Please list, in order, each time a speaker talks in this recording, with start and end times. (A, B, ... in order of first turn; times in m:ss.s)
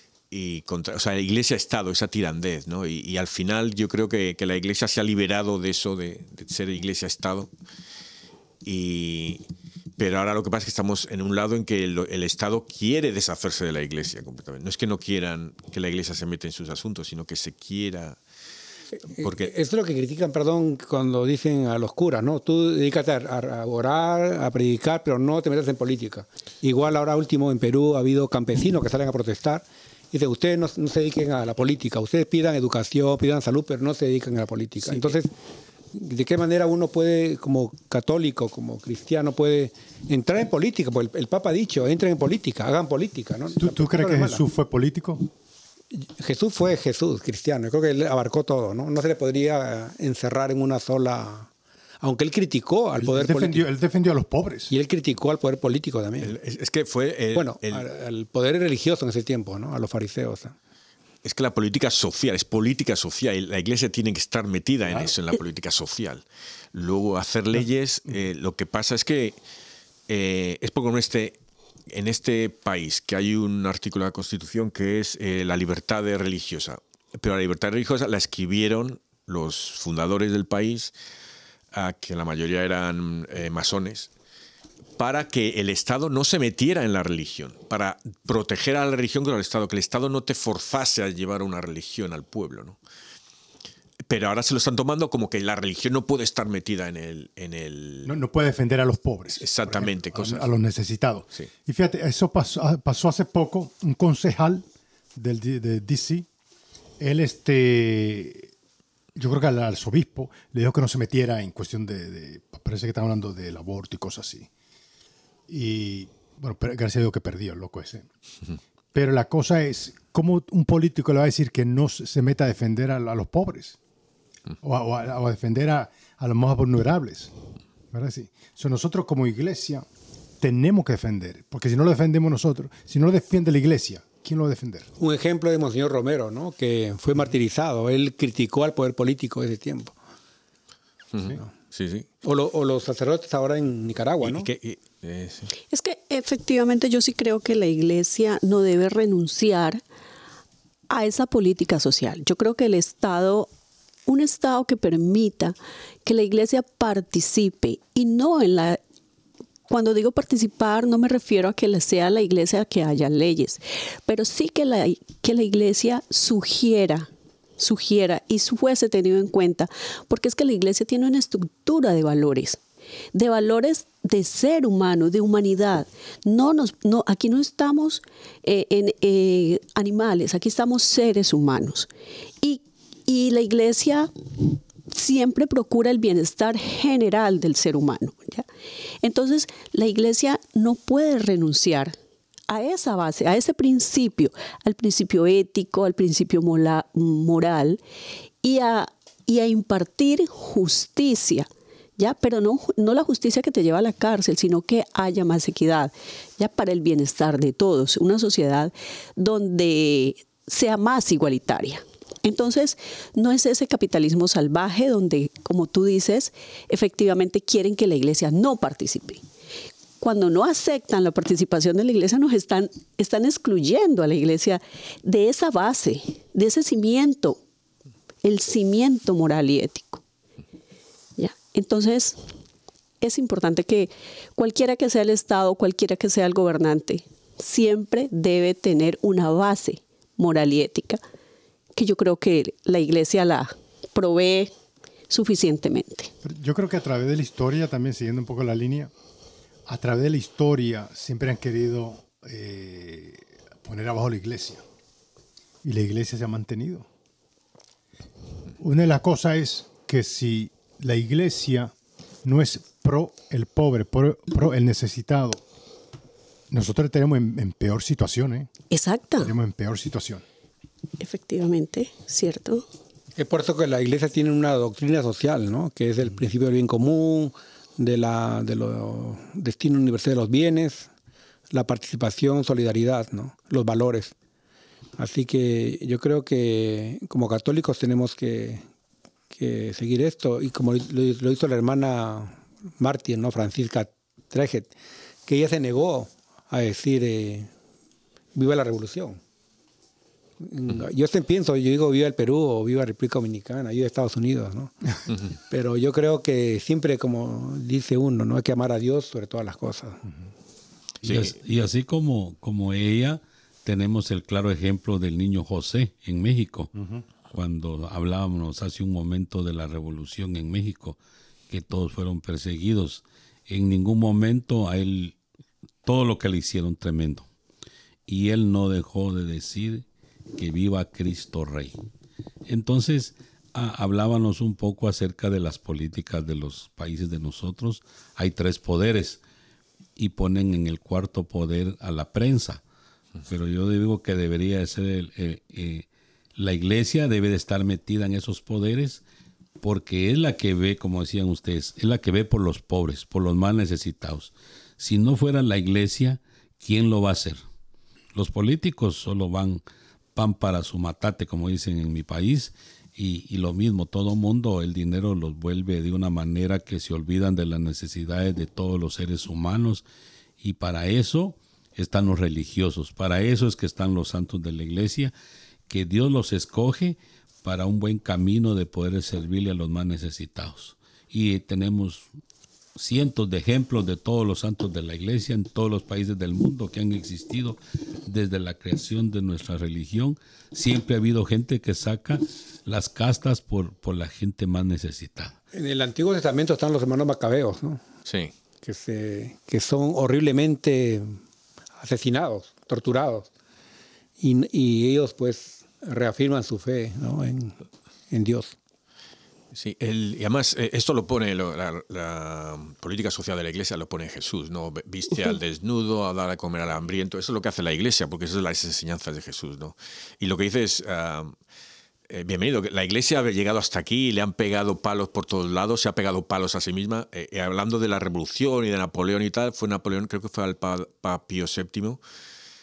0:00.3-0:07.5 A
0:08.6-0:09.4 A
0:10.0-0:18.2 A
0:19.1-0:35.3 B
0:19.2-0:19.5 A
0:34.8-0:35.1 A
0:35.9-0:44.4 B
0:43.6-0:45.3 C
0:45.9-0:51.5 B
0:52.0-0:53.7 B
0:53.0-0:54.7 C
0:54.7-0:56.4 B
0:56.2-0:57.9 A
0:57.3-1:00.6 B
1:01.2-1:09.4 A
1:10.1-1:20.9 A
1:21.7-1:24.1 A
1:25.0-1:32.8 A
1:34.1-1:38.2 A
1:38.1-1:46.3 C
1:39.3-1:40.5 A
1:47.0-1:48.5 C
1:49.2-1:54.5 C
1:55.5-1:58.1 C
1:58.9-2:03.8 C
2:04.6-2:07.3 C
2:07.9-2:09.9 C
2:10.4-2:14.9 C
2:15.0-2:20.0 B
2:21.1-2:22.1 A
2:22.2-2:24.5 B
2:24.2-2:25.5 A
2:25.7-2:29.8 D
2:30.9-2:33.5 D
2:34.1-2:38.8 D
2:39.7-2:52.6 D
2:53.1-3:01.9 D
3:02.4-3:08.4 D
3:09.0-3:12.0 D
3:12.5-3:17.8 D
3:18.4-3:39.2 D
3:40.0-3:47.4 D
3:48.2-3:50.0 D
3:51.2-3:52.2 D
3:53.0-4:01.0 D
4:01.8-4:04.5 D
4:05.1-4:06.1 D
4:06.2-4:08.9 C
4:09.7-4:14.6 C
4:15.6-4:16.9 C
4:18.6-4:21.7 C
4:22.2-4:25.4 C
4:26.5-4:28.5 C
4:28.7-4:29.3 D
4:29.2-4:30.2 C
4:31.0-4:32.6 D
4:33.2-4:40.9 B
4:41.5-4:44.1 B
4:45.0-4:48.6 B
4:49.3-4:54.7 B
4:55.3-4:57.5 B
4:58.4-4:59.2 B
5:00.4-5:04.7 B
5:05.5-5:10.0 B
5:11.0-5:11.4 A
5:11.0-5:16.7 E
5:17.3-5:25.2 E
5:25.8-5:27.3 E
5:28.1-5:31.8 E
5:32.5-5:39.2 E
5:40.0-5:42.6 E
5:43.3-5:49.0 E
5:49.6-5:57.4 E
5:58.1-5:59.6 E
6:00.2-6:09.8 E
6:10.4-6:15.1 E
6:15.7-6:22.1 E
6:22.8-6:35.4 E
6:35.5-6:37.8 B
6:38.1-6:38.3 A
6:38.6-6:41.2 B
6:41.8-6:43.3 B
6:44.2-6:47.6 B
6:48.1-6:48.6 B
6:49.5-7:01.3 A
7:02.1-7:12.0 A